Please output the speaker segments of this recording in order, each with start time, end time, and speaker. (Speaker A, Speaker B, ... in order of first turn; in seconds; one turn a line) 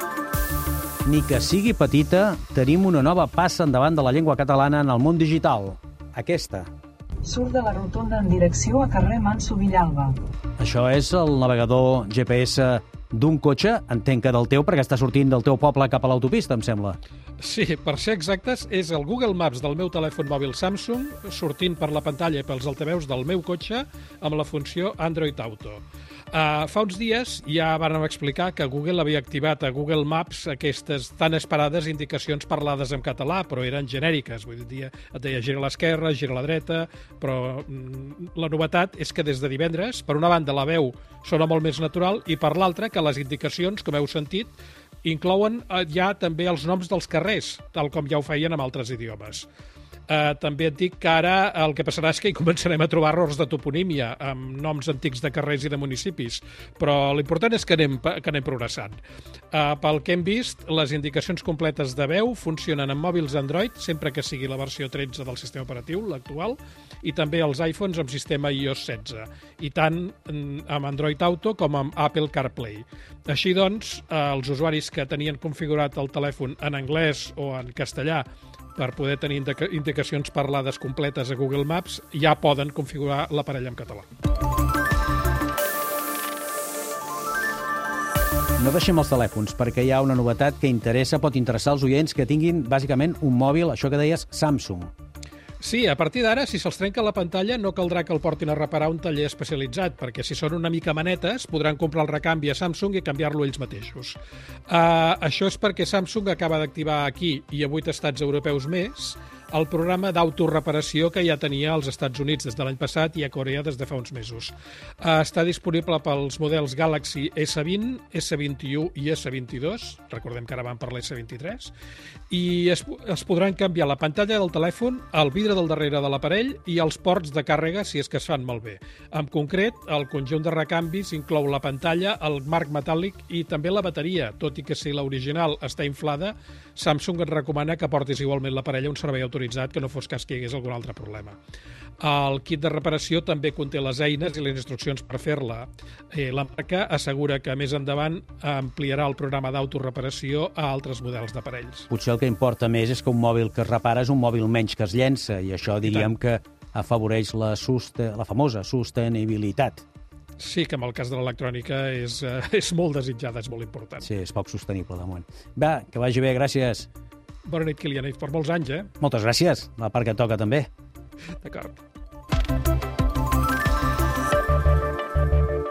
Speaker A: 1.0-6.7
Speaker B: 7.2-10.2
Speaker A: 10.6-17.0
Speaker C: 17.4-49.5
Speaker C: 50.1-59.0
Speaker C: 59.5-84.1
Speaker A: 88.6-94.9
Speaker C: 95.6-121.7
Speaker C: 122.3-141.4
Speaker C: 142.0-151.9
Speaker A: 151.9-159.8
Speaker C: 155.8-156.1
Speaker C: 160.4-164.1
Speaker A: 164.0-166.9
Speaker C: 167.4-168.9
Speaker A: 169.0-170.7
Speaker C: 171.4-171.8